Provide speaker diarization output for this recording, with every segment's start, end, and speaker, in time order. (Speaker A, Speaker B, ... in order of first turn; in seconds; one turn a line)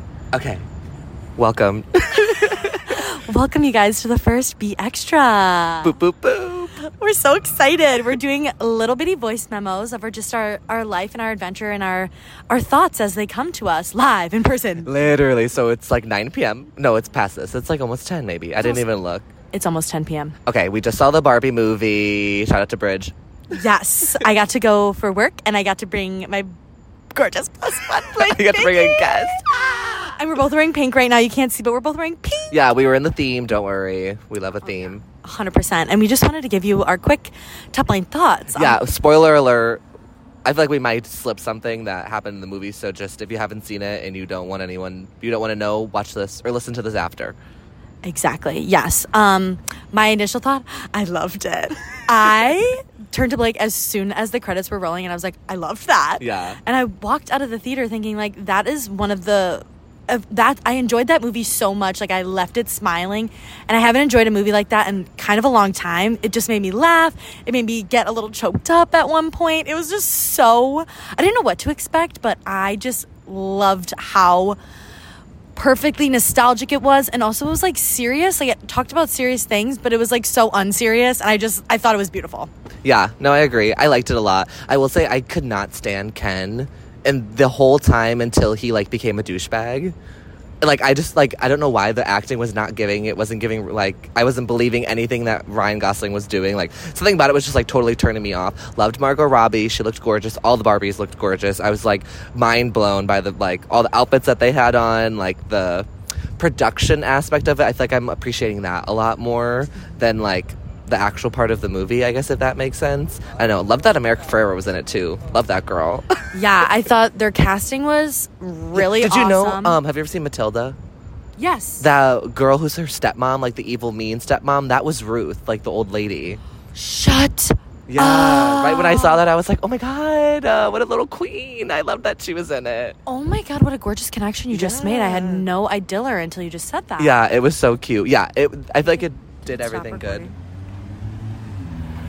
Speaker A: 0.3-0.6
Speaker A: 1.4-3.0
Speaker B: 2.2-5.9
Speaker A: 5.8-6.8
Speaker B: 6.8-14.9
Speaker A: 14.8-19.2
Speaker B: 18.6-18.9
Speaker B: 19.5-20.4
Speaker A: 20.4-23.1
Speaker B: 23.5-26.5
Speaker B: 27.1-32.5
Speaker A: 28.2-29.5
Speaker A: 32.5-35.0
Speaker B: 34.7-38.8
Speaker A: 38.5-39.8
Speaker A: 40.4-47.4
Speaker B: 48.0-74.6
Speaker A: 56.2-56.6
Speaker B: 75.5-82.5
Speaker A: 82.8-89.9
Speaker A: 90.6-105.9
Speaker A: 106.4-116.1
Speaker B: 116.3-119.8
Speaker A: 118.7-120.8
Speaker B: 121.4-121.9
Speaker A: 121.8-126.4
Speaker B: 126.7-129.2
Speaker A: 127.9-133.0
Speaker B: 133.1-137.2
Speaker A: 134.5-135.5
Speaker A: 137.0-140.3
Speaker B: 138.8-140.3